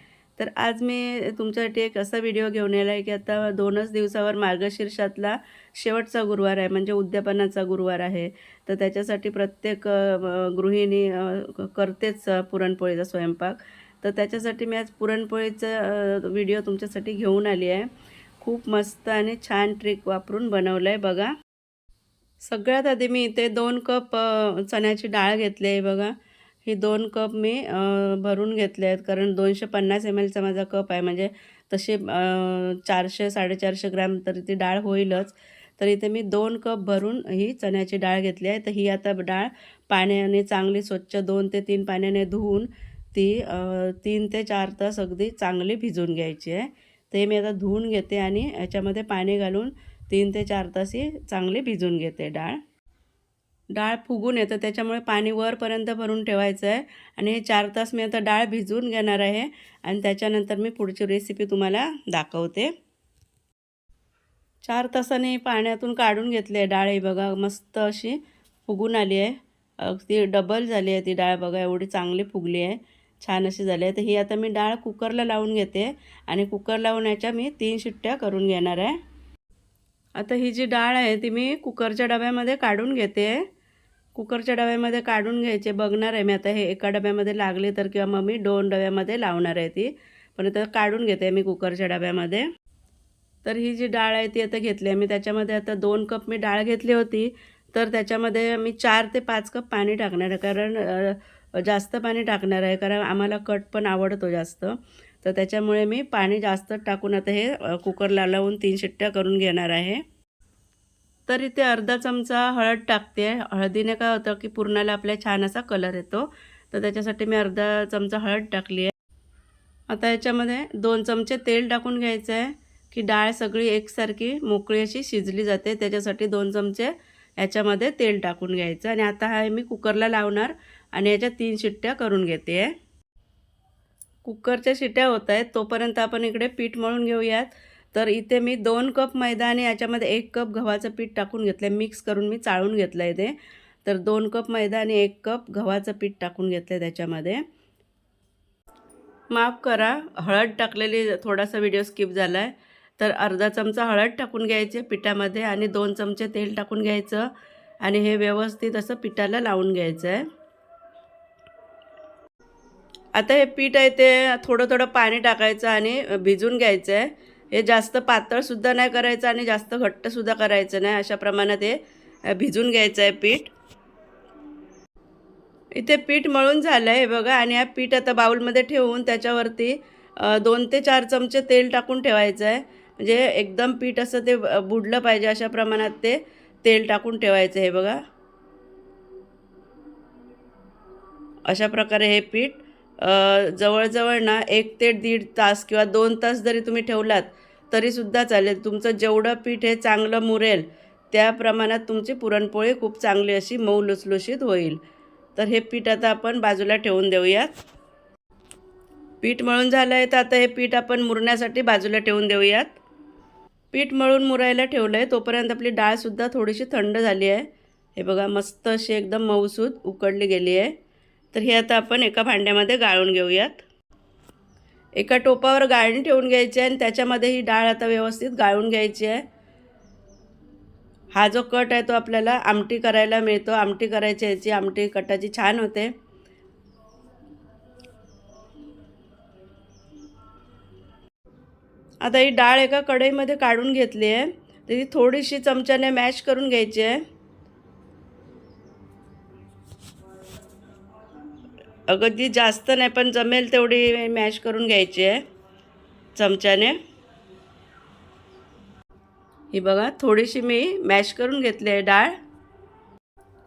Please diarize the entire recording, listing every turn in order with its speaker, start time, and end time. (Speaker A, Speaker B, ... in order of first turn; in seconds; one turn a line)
Speaker A: 0.4-17.9
Speaker A: 18.4-21.3
Speaker A: 22.4-52.6
Speaker A: 53.7-62.7
Speaker A: 64.6-79.0
Speaker A: 80.2-83.5
Speaker A: 84.1-92.5
Speaker A: 93.4-110.0
Speaker A: 111.3-118.9
Speaker A: 119.9-132.7
Speaker A: 134.2-147.4
Speaker A: 149.3-157.3
Speaker A: 157.8-160.2
Speaker A: 163.2-171.8
Speaker A: 172.3-173.5
Speaker A: 175.8-188.0
Speaker A: 191.5-204.8
Speaker A: 205.3-207.6
Speaker A: 209.2-212.8
Speaker A: 213.7-220.7
Speaker A: 221.3-223.6
Speaker A: 225.0-229.2
Speaker A: 231.1-235.9
Speaker A: 242.0-247.0
Speaker A: 251.9-255.2
Speaker A: 256.1-256.8
Speaker A: 259.5-262.1